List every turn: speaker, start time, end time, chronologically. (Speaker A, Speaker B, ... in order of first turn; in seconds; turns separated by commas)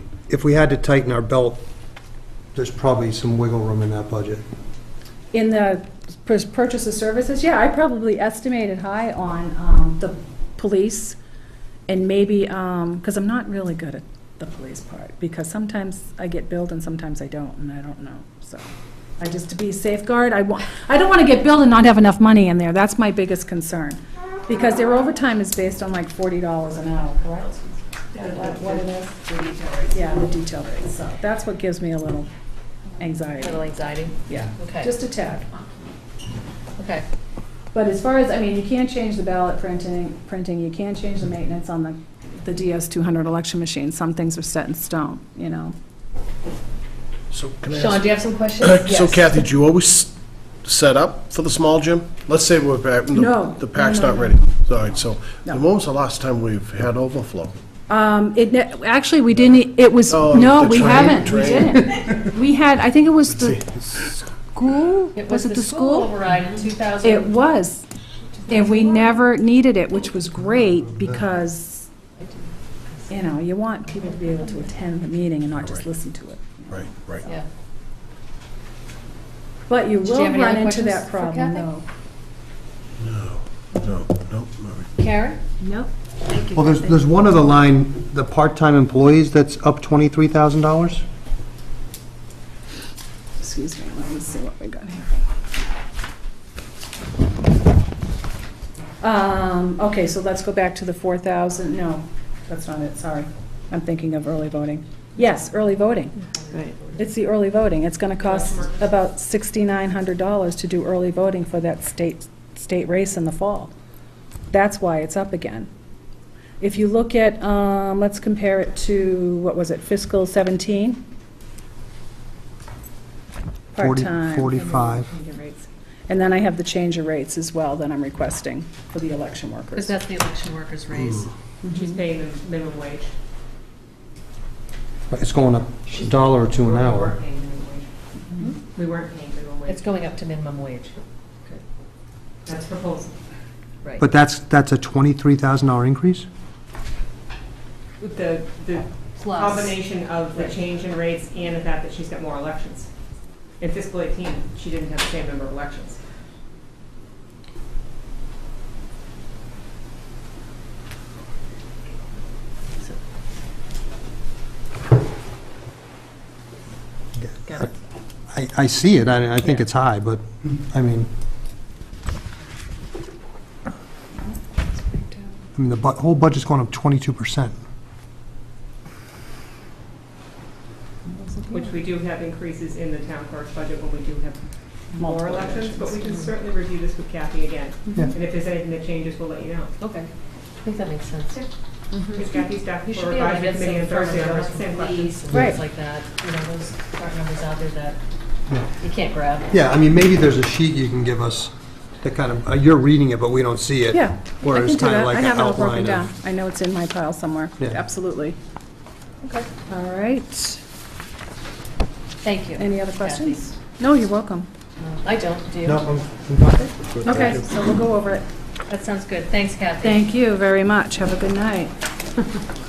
Speaker A: 0.3-1.6, Speaker A: 2.5-4.4, Speaker B: 5.3-11.2, Speaker B: 11.9-18.7, Speaker B: 19.2-27.6, Speaker B: 28.1-29.2, Speaker B: 29.9-32.3, Speaker B: 33.0-33.7, Speaker C: 33.4-34.9, Speaker B: 34.3-35.5, Speaker C: 36.8-37.0, Speaker B: 37.7-45.8, Speaker D: 47.3-57.5, Speaker C: 47.7-49.4, Speaker B: 53.1-54.5, Speaker B: 57.9-66.1, Speaker D: 60.1-61.8, Speaker D: 63.5-63.8, Speaker C: 65.2-67.3, Speaker B: 67.0-67.9, Speaker C: 68.5-68.9, Speaker B: 68.5-71.9, Speaker C: 72.2-73.1, Speaker B: 73.1-77.4, Speaker D: 76.7-77.2, Speaker B: 79.7-81.8, Speaker C: 80.0-81.7, Speaker D: 83.0-84.9, Speaker C: 85.0-85.4, Speaker B: 85.6-85.9, Speaker A: 86.3-91.0, Speaker B: 93.4-95.2, Speaker B: 99.0-113.7, Speaker C: 106.2-107.0, Speaker C: 108.2-108.9, Speaker B: 114.5-115.7, Speaker B: 116.6-121.0, Speaker B: 123.7-124.6, Speaker A: 123.8-125.1, Speaker E: 124.5-125.7, Speaker B: 126.1-130.0, Speaker C: 129.7-131.3, Speaker E: 131.7-133.1, Speaker A: 135.1-137.2, Speaker E: 136.0-137.9, Speaker E: 138.4-139.9, Speaker C: 139.7-141.0, Speaker E: 142.5-143.1, Speaker A: 144.0-146.3, Speaker E: 148.0-152.9, Speaker C: 149.2-149.8, Speaker E: 153.6-156.0, Speaker A: 167.2-167.7, Speaker A: 168.3-171.1, Speaker B: 174.3-175.3, Speaker A: 175.6-177.6, Speaker B: 181.1-181.8, Speaker E: 181.5-184.4, Speaker E: 184.9-189.8, Speaker B: 185.0-186.0, Speaker B: 187.9-188.1, Speaker C: 189.8-190.1, Speaker C: 190.6-191.5, Speaker E: 192.1-195.2, Speaker C: 192.9-198.0, Speaker B: 195.3-195.6, Speaker C: 198.8-199.5, Speaker A: 199.5-206.1, Speaker B: 203.9-208.4, Speaker B: 209.7-210.6, Speaker C: 212.2-213.4, Speaker B: 212.6-214.5, Speaker C: 214.8-215.8, Speaker A: 215.6-217.6, Speaker B: 217.0-218.3, Speaker C: 218.7-220.1, Speaker B: 219.8-221.7